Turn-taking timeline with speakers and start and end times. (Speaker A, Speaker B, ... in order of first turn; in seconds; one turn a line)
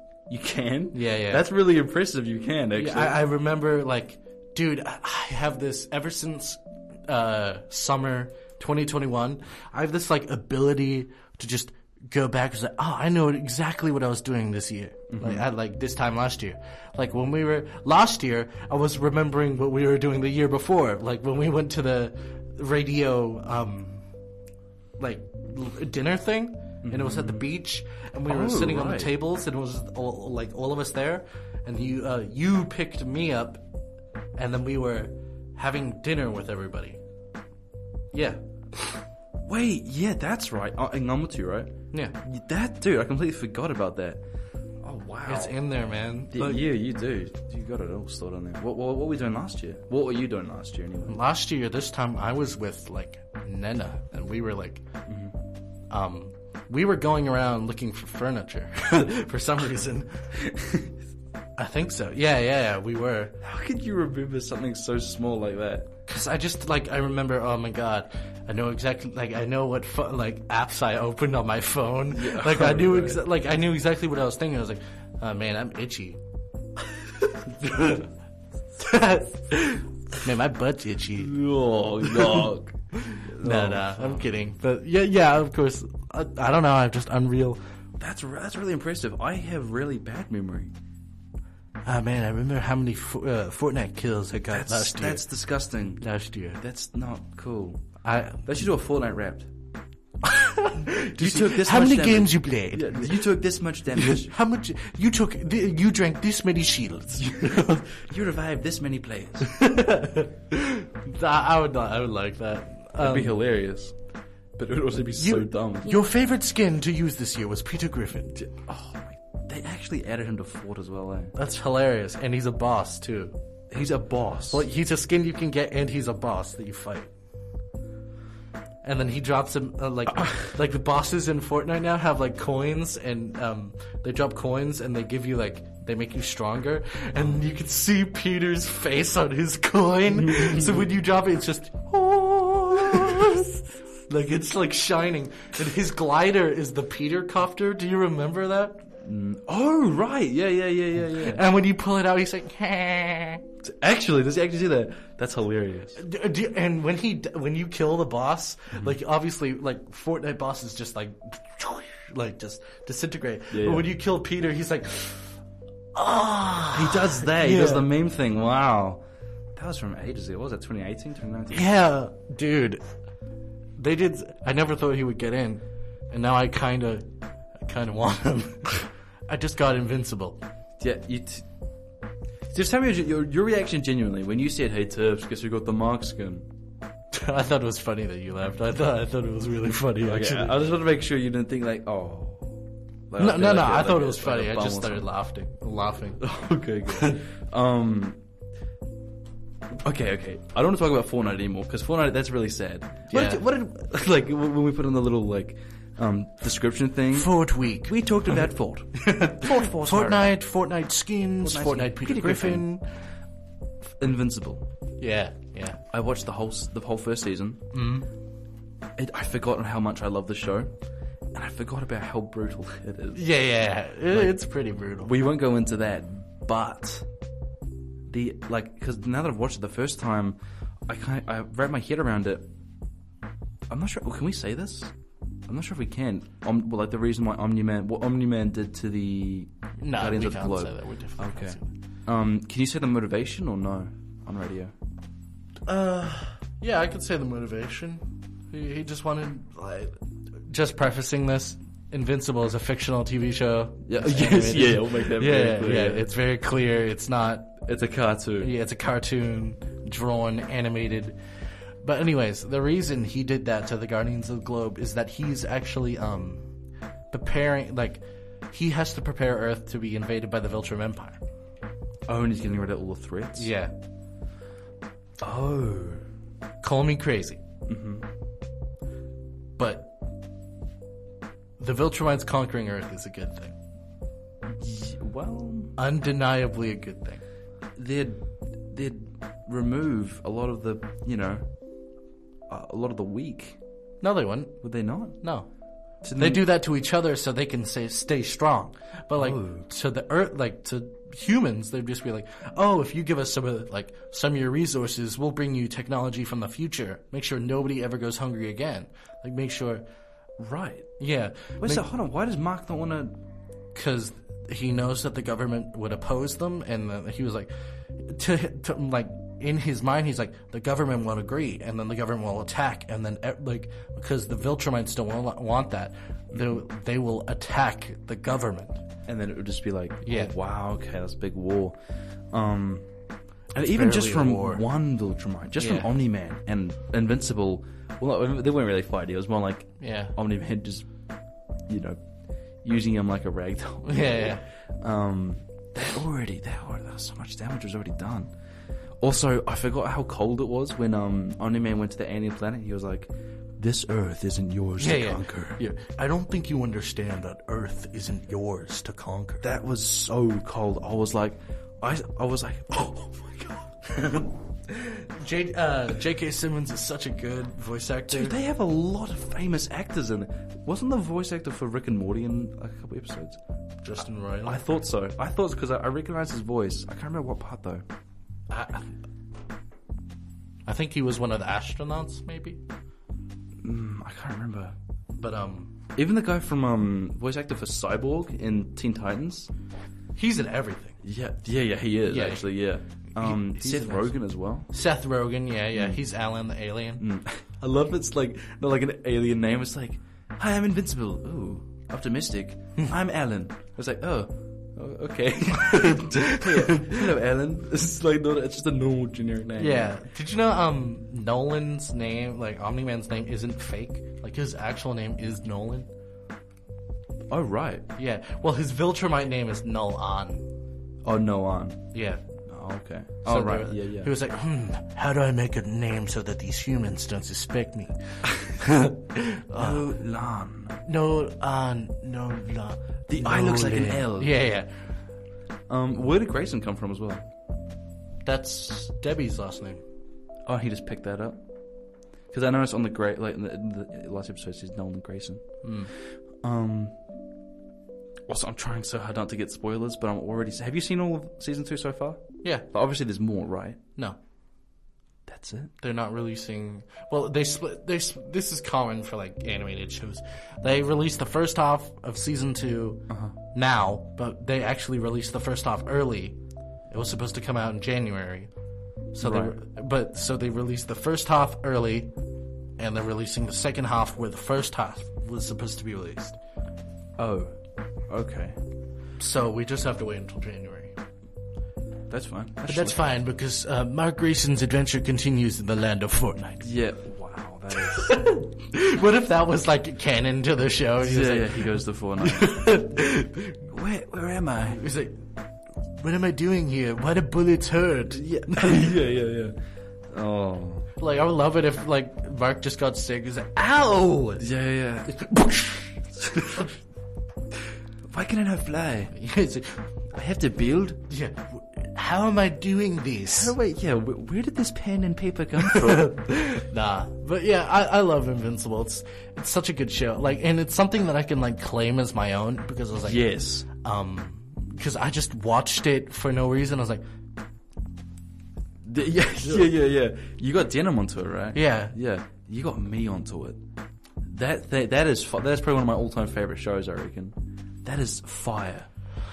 Speaker A: 0.3-3.2
Speaker B: 0.9-1.5
Speaker B: 2.7-24.1
Speaker A: 15.1-15.5
Speaker B: 25.0-33.6
Speaker A: 26.8-27.5
Speaker A: 28.3-29.1
Speaker B: 34.3-37.0
Speaker B: 38.1-39.0
Speaker A: 39.4-44.2
Speaker A: 44.8-45.6
Speaker B: 45.2-46.7
Speaker A: 46.3-51.2
Speaker B: 51.1-54.8
Speaker A: 55.1-55.3
Speaker B: 55.9-60.3
Speaker A: 60.4-60.9
Speaker B: 61.6-63.4
Speaker A: 63.4-65.9
Speaker B: 66.1-76.2
Speaker A: 72.1-73.2
Speaker B: 77.0-78.1
Speaker B: 78.8-81.4
Speaker A: 81.2-84.3
Speaker B: 82.0-87.6
Speaker A: 88.0-90.7
Speaker B: 91.8-95.3
Speaker A: 94.5-96.0
Speaker B: 96.0-96.6
Speaker A: 96.6-97.9
Speaker B: 98.0-98.4
Speaker A: 98.4-99.5
Speaker B: 100.2-103.4
Speaker A: 101.2-104.3
Speaker B: 103.9-107.9
Speaker A: 107.2-109.7
Speaker B: 109.5-113.4
Speaker A: 113.0-114.0
Speaker A: 114.5-116.0
Speaker B: 115.2-118.4
Speaker A: 118.3-121.3
Speaker B: 121.3-123.4
Speaker A: 123.7-124.7
Speaker B: 124.5-127.1
Speaker B: 128.8-148.9
Speaker A: 140.3-140.7
Speaker A: 149.0-151.4
Speaker B: 151.1-153.4
Speaker A: 153.6-156.0
Speaker B: 155.9-165.4
Speaker A: 163.5-163.9
Speaker B: 165.9-167.9
Speaker A: 166.7-169.0
Speaker A: 169.5-171.7
Speaker B: 171.5-172.8
Speaker B: 173.8-180.4
Speaker A: 180.8-181.5
Speaker A: 182.5-186.5
Speaker B: 187.1-190.6
Speaker A: 190.0-195.1
Speaker B: 193.2-196.2
Speaker A: 196.2-198.2
Speaker B: 196.9-197.2
Speaker A: 199.8-210.4
Speaker B: 203.1-203.4
Speaker B: 207.1-208.0
Speaker B: 209.0-212.8
Speaker A: 211.4-212.7
Speaker A: 213.9-214.7
Speaker B: 215.0-215.8
Speaker A: 215.9-217.7
Speaker B: 217.7-218.1
Speaker A: 218.9-220.7
Speaker A: 221.3-223.3
Speaker B: 223.1-225.1
Speaker A: 224.1-224.4
Speaker A: 225.0-227.1
Speaker A: 228.1-232.5
Speaker A: 233.7-234.9
Speaker A: 235.4-244.7
Speaker B: 239.8-241.7
Speaker B: 245.7-257.6
Speaker A: 253.8-256.0
Speaker A: 257.6-258.5
Speaker B: 258.4-261.2
Speaker B: 261.8-266.5
Speaker B: 267.1-271.2
Speaker A: 272.1-273.5
Speaker B: 273.4-273.7
Speaker A: 275.2-276.1
Speaker B: 276.6-277.4
Speaker A: 277.6-278.1
Speaker B: 279.6-279.9
Speaker B: 281.6-283.6
Speaker A: 284.5-285.7
Speaker B: 285.8-287.2
Speaker A: 287.8-291.5
Speaker A: 292.5-293.6
Speaker B: 294.0-294.6
Speaker A: 294.6-295.2
Speaker B: 295.2-295.5
Speaker A: 296.0-296.5
Speaker B: 296.1-309.8
Speaker A: 299.1-299.7
Speaker A: 310.4-310.9
Speaker B: 311.0-311.9
Speaker A: 311.6-313.2
Speaker B: 313.7-328.8
Speaker A: 326.3-326.6
Speaker A: 329.1-331.8
Speaker B: 330.0-330.3
Speaker A: 332.3-332.9
Speaker A: 333.5-340.9
Speaker B: 333.5-334.6
Speaker B: 335.6-335.9
Speaker B: 339.8-340.1
Speaker A: 341.7-342.0
Speaker A: 342.6-348.3
Speaker B: 343.8-344.4
Speaker A: 349.0-355.6
Speaker B: 354.8-359.4
Speaker A: 359.4-363.7
Speaker B: 363.9-368.4
Speaker A: 368.1-373.4
Speaker B: 373.8-374.6
Speaker A: 374.4-377.9
Speaker B: 378.5-378.9
Speaker B: 380.6-382.6
Speaker A: 383.6-384.7
Speaker B: 385.1-385.8
Speaker A: 385.9-389.5
Speaker B: 390.1-391.0
Speaker A: 391.0-394.7
Speaker B: 392.1-392.5
Speaker B: 393.1-394.2
Speaker B: 394.7-397.0
Speaker A: 395.7-396.0
Speaker A: 397.0-410.0
Speaker B: 405.6-407.0
Speaker B: 409.6-415.9
Speaker A: 417.3-417.9
Speaker B: 417.9-420.4
Speaker A: 421.0-421.9
Speaker B: 421.9-422.2
Speaker A: 422.4-424.1
Speaker B: 423.2-429.9
Speaker A: 428.2-428.5
Speaker A: 429.5-430.8
Speaker B: 430.8-434.7
Speaker A: 433.1-434.3
Speaker A: 435.7-437.3
Speaker B: 438.2-439.8
Speaker A: 440.4-441.4
Speaker A: 442.3-445.7
Speaker B: 445.6-445.9
Speaker A: 446.4-446.9
Speaker A: 448.3-453.8
Speaker A: 455.3-455.7
Speaker B: 455.8-466.4
Speaker A: 463.1-463.4
Speaker B: 466.9-468.5
Speaker B: 469.1-472.1
Speaker A: 469.2-469.6
Speaker B: 472.8-476.4
Speaker A: 477.2-478.6
Speaker B: 479.2-480.9
Speaker A: 482.1-483.0
Speaker B: 482.7-486.7
Speaker A: 486.6-488.1
Speaker B: 487.7-493.6
Speaker A: 491.0-492.8
Speaker A: 493.7-494.8
Speaker B: 494.7-495.3
Speaker B: 496.0-498.9
Speaker A: 498.1-499.6
Speaker A: 500.1-500.9
Speaker B: 501.0-504.5
Speaker A: 504.4-505.3
Speaker B: 505.1-506.7
Speaker A: 506.2-506.7
Speaker A: 508.1-509.1
Speaker B: 509.1-509.8
Speaker A: 510.1-511.0
Speaker B: 511.1-513.5
Speaker A: 513.3-516.2
Speaker B: 515.6-527.0
Speaker A: 523.0-523.6
Speaker A: 528.8-533.6
Speaker B: 531.5-531.9
Speaker A: 534.2-538.9